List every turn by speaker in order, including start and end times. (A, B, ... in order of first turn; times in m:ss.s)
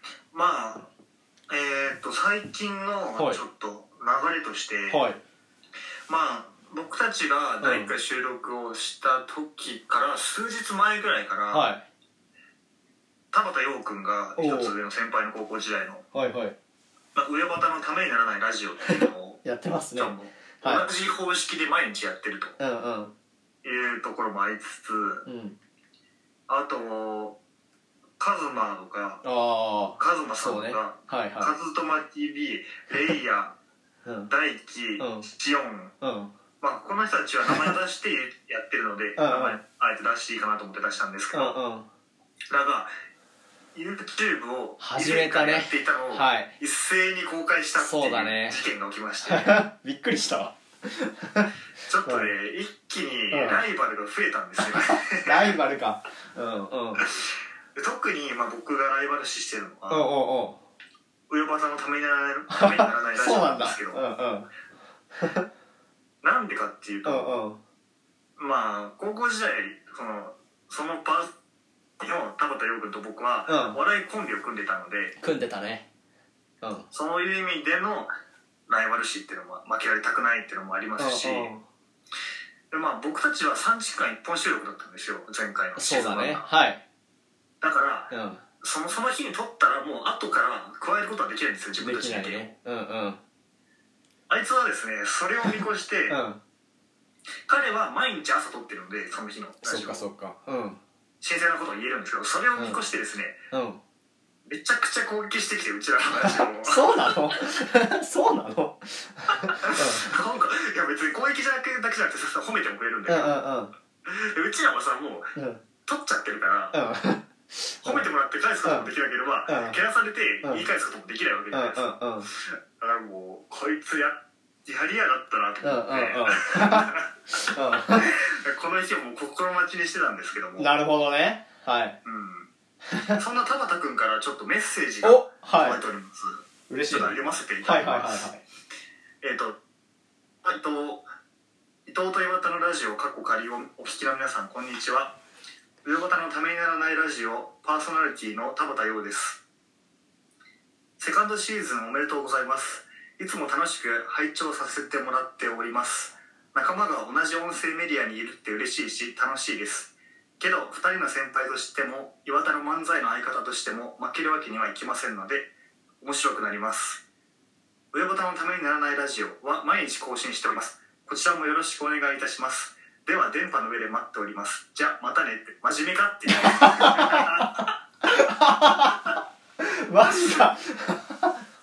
0:00.3-0:00.9 A
0:01.5-0:05.0 A
0:03.2-0:03.4 B
0:04.9-0:05.2 B
0:06.1-0:11.7 A
0:07.6-0:07.9 B
0:11.5-0:11.8 B
0:13.3-0:16.0 A
0:14.4-0:14.7 B
0:16.1-0:16.5 B
0:17.1-0:19.4 A
0:18.9-0:20.8 B
0:19.9-0:22.6 A
0:22.6-0:23.1 B
0:23.6-0:25.3 A
0:25.2-0:25.6 B
0:26.5-0:27.4 A
0:28.2-0:29.2 A
0:29.2-0:31.5 B
0:30.0-0:33.6 A
0:34.0-0:34.3 B
0:34.3-0:35.9 A
0:35.0-0:35.3 B
0:36.0-0:36.3 B
0:36.6-0:41.6 A
0:39.2-0:39.6 B
0:41.3-0:41.8 B
0:42.5-0:42.9 A
0:43.7-0:49.6 A
0:44.8-0:46.5 B
0:47.8-0:48.6 B
0:49.2-0:51.5 B
0:51.8-0:55.6 A
0:53.3-0:53.6 B
0:54.6-0:57.0 B
0:57.0-1:00.1 A
0:59.9-1:00.6 B
1:01.3-1:04.0 A
1:02.5-1:04.5 B
1:05.2-1:05.4 B
1:06.2-1:07.4 A
1:07.0-1:07.6 B
1:08.4-1:11.3 A
1:12.0-1:15.2 A
1:13.5-1:13.8 B
1:15.2-1:15.8 B
1:16.6-1:16.9 B
1:16.9-1:18.1 A
1:18.7-1:21.5 A
1:21.0-1:21.6 B
1:22.7-1:26.5 A
1:25.8-1:26.8 B
1:27.6-1:32.5 A
1:28.1-1:28.4 B
1:31.8-1:33.2 B
1:34.3-1:36.2 A
1:36.1-1:36.4 B
1:37.5-1:40.1 A
1:39.6-1:40.8 B
1:41.2-1:43.4 A
1:42.6-1:42.8 B
1:43.5-1:43.8 B
1:44.4-1:47.2 A
1:46.2-1:50.1 B
1:49.5-1:53.4 A
1:53.1-1:53.7 B
1:54.1-1:55.3 A
1:55.3-1:55.6 B
1:55.8-1:56.8 A
1:56.7-1:58.1 B
1:57.8-2:10.7 A
1:58.6-1:58.9 B
1:59.5-1:59.8 B
2:01.5-2:02.3 B
2:05.6-2:06.9 B
2:07.4-2:08.1 B
2:10.6-2:12.0 B
2:12.0-2:12.5 A
2:12.9-2:13.2 B
2:13.1-2:18.3 A
2:15.0-2:15.8 B
2:16.7-2:18.4 B
2:19.2-2:19.5 A
2:20.4-2:21.1 A
2:21.9-2:25.2 A
2:25.8-2:29.4 A
2:31.0-2:47.0 A
2:47.9-2:57.7 A
2:56.5-2:57.3 B
2:58.1-2:59.0 B
2:59.6-3:01.4 B
3:00.0-3:00.5 A